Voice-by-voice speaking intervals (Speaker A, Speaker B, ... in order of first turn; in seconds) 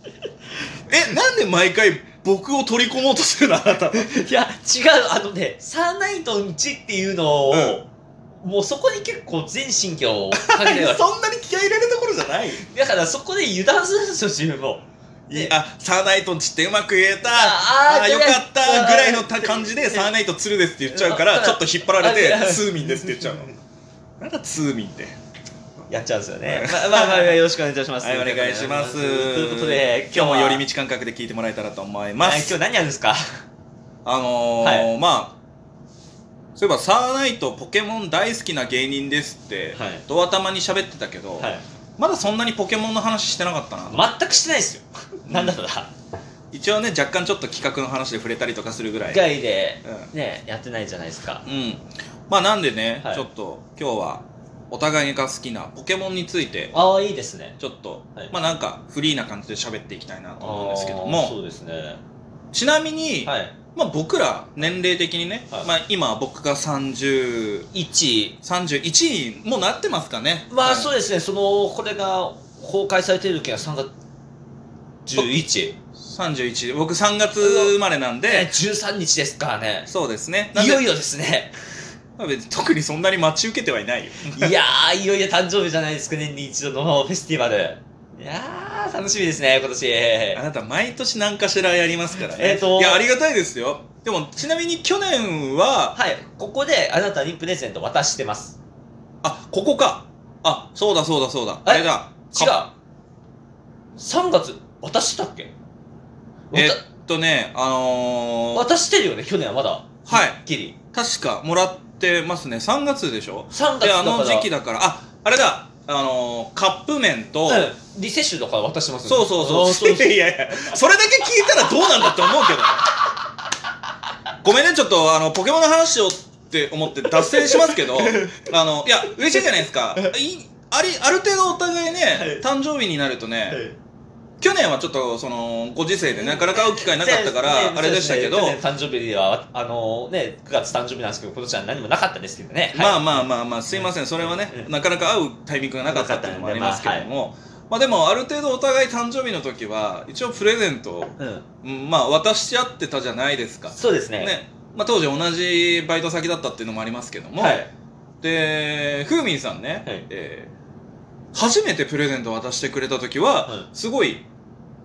Speaker A: 0.9-4.1, 7.5-7.8, 10.3-12.6, 15.3-23.5, 24.2-25.1, 26.5-27.4, 28.0-32.5, 34.0-35.4, 36.5-44.0, 45.2-45.6, 46.5-49.2, 51.4-56.7, 57.6-61.3, 62.5-67.7, 68.4-70.9, 76.0-78.5, 79.9-80.9, 82.2-84.5, 90.3-96.0, 99.2-102.6, 106.5-108.7, 110.1-110.4, 110.9-117.7, 119.0-122.9, 124.4-133.6, 134.4-138.6, 142.7-157.6, 158.2-160.5, 161.3-164.2
Speaker B: 3.9-7.9, 8.4-11.0, 12.6-15.6, 17.3-20.1, 20.9-23.5, 25.9-30.6, 32.2-33.2, 34.6-34.9, 39.8-40.0, 41.4-41.6, 43.9-45.9, 49.1-51.5, 53.0-53.2, 56.7-57.6, 60.4-62.0, 63.2-63.5, 67.7-68.4, 70.5-73.9, 75.0-75.8, 77.4-79.9, 80.5-81.5, 84.3-90.4, 92.3-93.0, 95.9-98.6, 101.6-102.7, 104.0-105.5, 106.5-106.8, 108.5-110.7, 113.5-114.5, 117.5-120.2, 127.3-128.5, 132.1-132.4, 133.5-133.8, 136.0-144.7, 145.9-147.1, 151.2-151.4, 153.8-154.3, 157.4-157.7